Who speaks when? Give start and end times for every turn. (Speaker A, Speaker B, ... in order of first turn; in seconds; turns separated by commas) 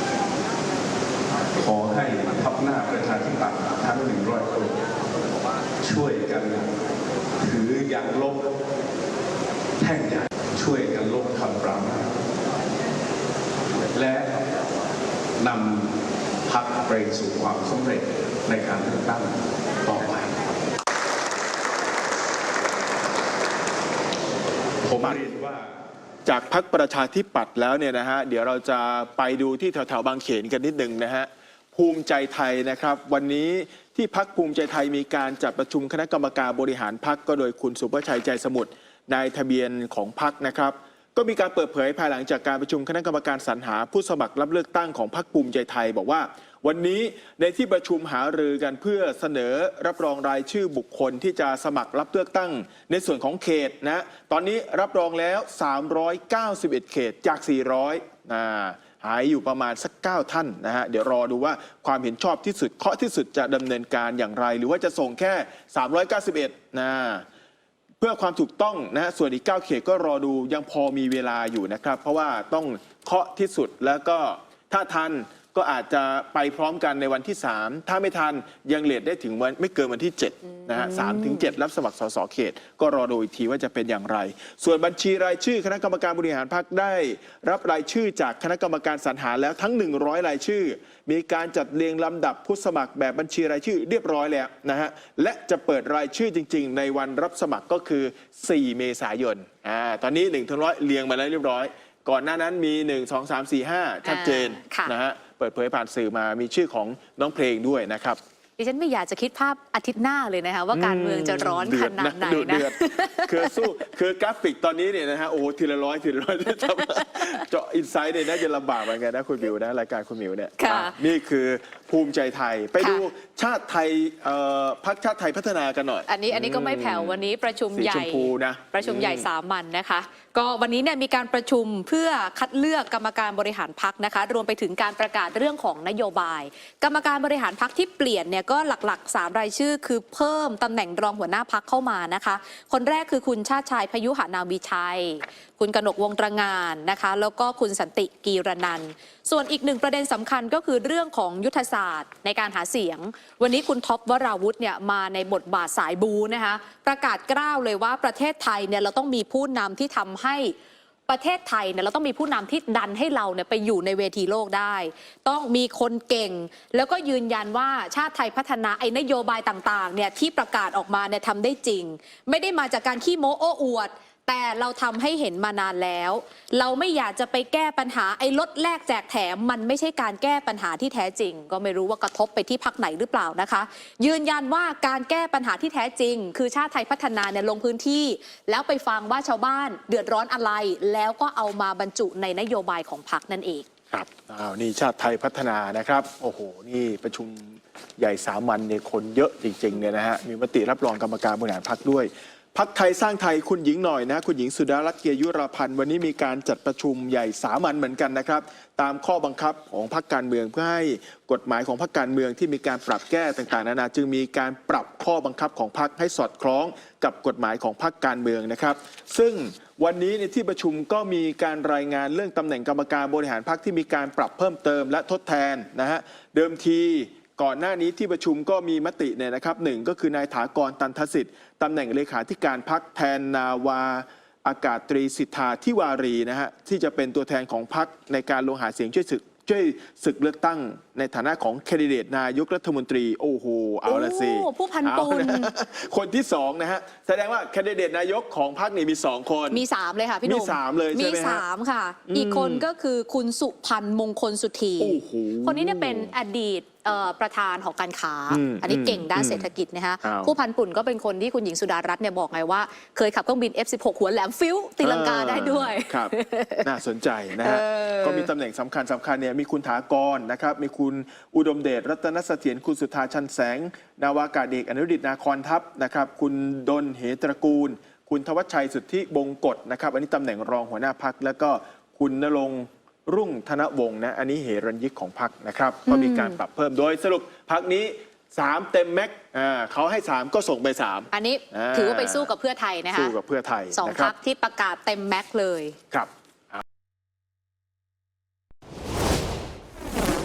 Speaker A: 1.5-4.9, Speaker A: 5.8-6.7, Speaker A: 7.4-8.5, Speaker A: 9.8-12.1, Speaker A: 13.9-14.4, Speaker A: 15.4-15.9, Speaker A: 16.4-20.3, Speaker A: 24.8-25.7, Speaker B: 24.9-25.2, Speaker B: 26.2-67.2, Speaker B: 68.0-108.2, Speaker C: 80.7-81.5, Speaker C: 104.0-104.9, Speaker C: 108.6-113.7, Speaker B: 110.7-129.3, Speaker C: 116.7-117.4, Speaker C: 120.6-121.0, Speaker C: 126.0-160.5, Speaker C: 161.1-193.7, Speaker B: 193.9-249.6, Speaker C: 243.8-245.5, Speaker C: 249.5-266.7, Speaker B: 250.2-251.4, Speaker B: 252.1-252.6, Speaker B: 254.8-256.1, Speaker B: 258.3-259.4, Speaker B: 260.0-260.3, Speaker B: 264.8-292.3, Speaker C: 267.4-268.3, Speaker C: 285.9-286.4, Speaker C: 291.1-293.1, Speaker B: 292.9-294.1, Speaker C: 293.7-295.8, Speaker B: 295.9-296.6